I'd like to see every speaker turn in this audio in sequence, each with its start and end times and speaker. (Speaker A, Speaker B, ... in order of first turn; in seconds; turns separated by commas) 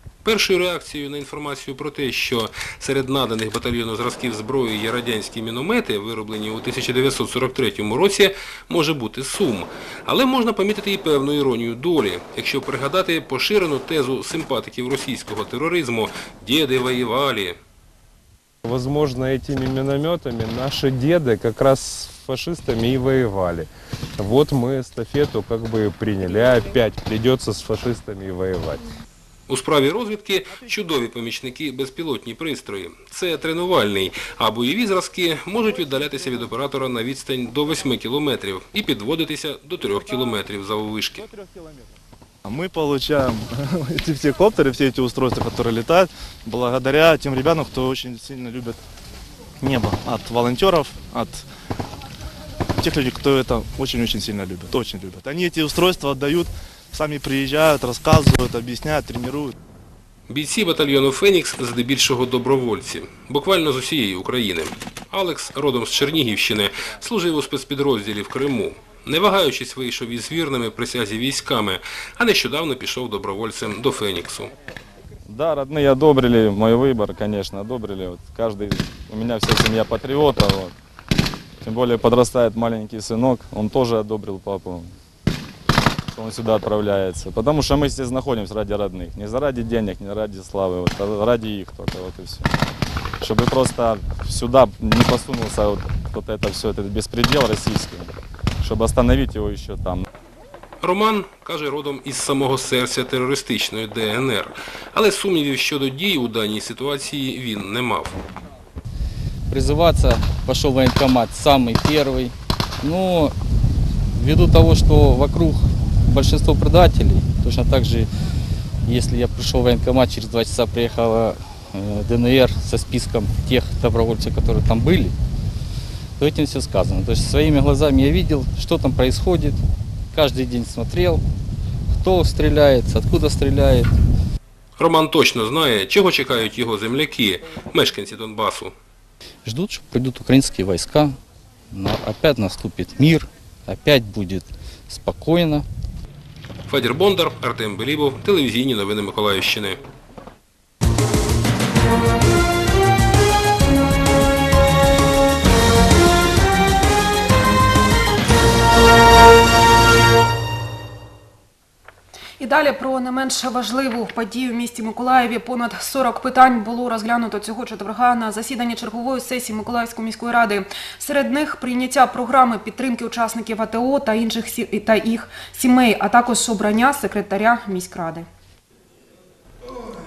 Speaker A: 0.2-17.6, Speaker B: 18.6-28.8, Speaker A: 29.5-41.3, Speaker C: 42.4-48.8, Speaker C: 49.6-51.5, Speaker C: 52.8-59.5, Speaker A: 60.3-74.5, Speaker D: 75.2-80.7, Speaker D: 81.6-84.9, Speaker D: 86.1-92.5, Speaker D: 93.2-100.0, Speaker A: 100.8-108.2, Speaker E: 109.5-113.3, Speaker E: 114.1-118.1, Speaker E: 118.8-125.1, Speaker E: 126.2-129.6, Speaker E: 130.1-131.2, Speaker E: 131.9-133.9, Speaker A: 134.8-138.7, Speaker E: 139.4-141.2, Speaker E: 141.7-145.6, Speaker A: 146.7-149.8, Speaker F: 162.4-178.2